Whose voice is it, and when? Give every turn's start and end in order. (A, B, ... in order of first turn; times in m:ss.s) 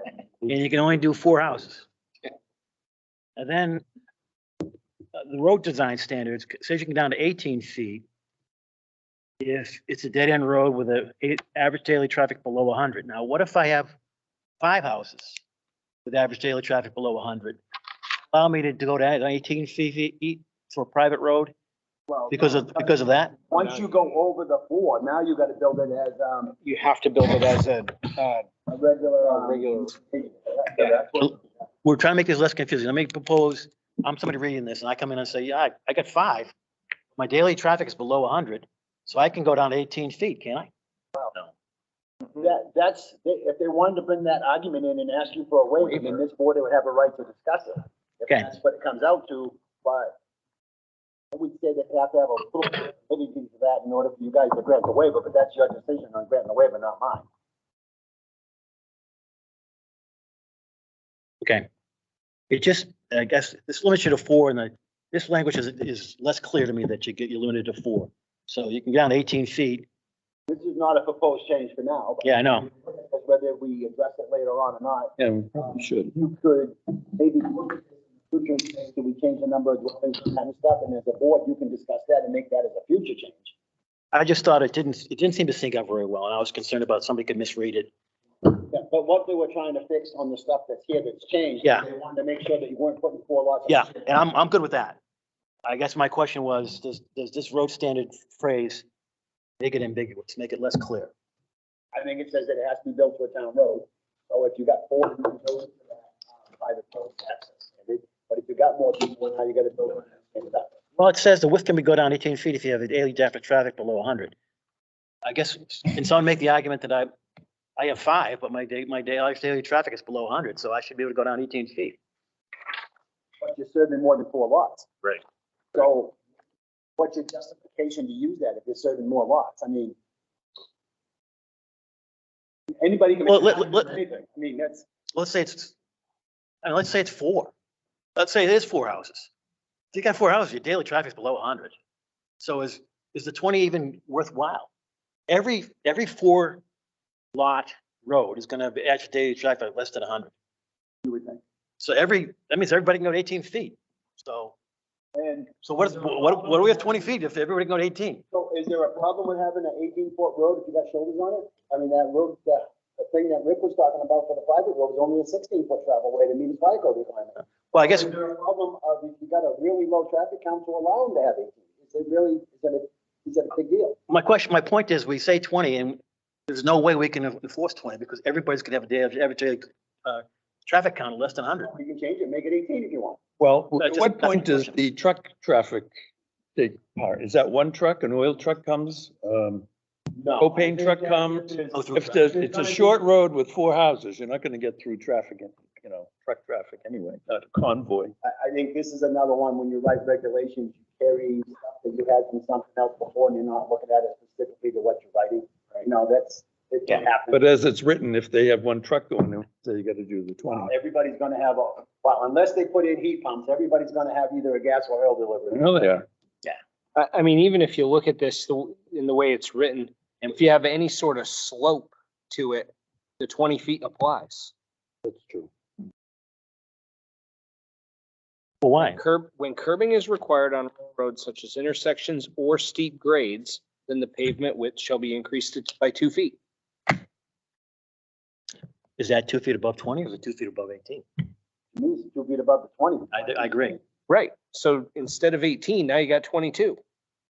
0:00.4-0:01.9 A
0:03.4-0:03.8 A
0:05.1-0:08.0 A
0:09.4-0:13.9 A
0:14.6-0:15.4 A
0:16.0-0:17.6 A
0:18.3-0:21.5 A
0:22.1-0:26.6 B
0:22.3-0:23.3 A
0:23.5-0:24.1 C
0:26.6-0:28.5 C
0:28.7-0:31.4 B
0:29.2-0:29.9 C
0:31.8-0:36.5 A
0:37.2-0:40.7 A
0:42.3-0:50.2 B
0:45.8-0:46.2 C
0:51.3-0:57.2 B
1:01.4-1:01.7 A
1:02.5-1:09.8 A
1:10.5-1:23.5 B
1:12.2-1:12.7 A
1:15.2-1:16.1 D
1:24.1-1:27.9 A
1:28.5-1:34.0 B
1:33.7-1:35.0 A
1:35.6-1:38.8 A
1:39.6-1:41.1 A
1:41.9-1:50.8 B
1:51.0-1:54.3 A
1:55.2-1:57.1 A
1:57.8-2:02.0 A
2:03.4-2:04.9 B
2:05.7-2:06.2 B
2:07.0-2:10.0 B
2:12.8-2:14.8 B
2:13.3-2:13.9 A
2:15.1-2:15.7 A
2:16.6-2:17.5 A
2:18.2-2:19.3 A
2:19.9-2:21.7 A
2:22.4-2:24.7 A
2:25.3-2:26.6 A
2:27.3-2:30.3 A
2:31.0-2:31.4 B
2:31.8-2:34.5 A
2:35.1-2:35.5 B
2:35.6-2:38.2 A
2:38.3-2:54.0 B
2:47.7-2:48.1 A
2:54.1-3:01.7 A
3:01.7-3:03.2 B
3:03.4-3:05.9 D
3:03.8-3:04.8 A
3:06.6-3:09.7 D
3:10.1-3:13.0 B
3:10.4-3:18.1 D
3:11.7-3:12.1 A
3:18.2-3:27.4 B
3:27.3-3:30.7 D
3:30.5-3:35.6 B
3:35.5-3:36.0 D
3:37.0-3:44.5 C
3:45.0-3:45.5 D
3:48.6-3:49.0 A
3:49.0-3:56.4 C
3:59.0-4:01.0 A
4:01.7-4:03.5 B
4:03.1-4:03.8 A
4:04.1-4:06.8 C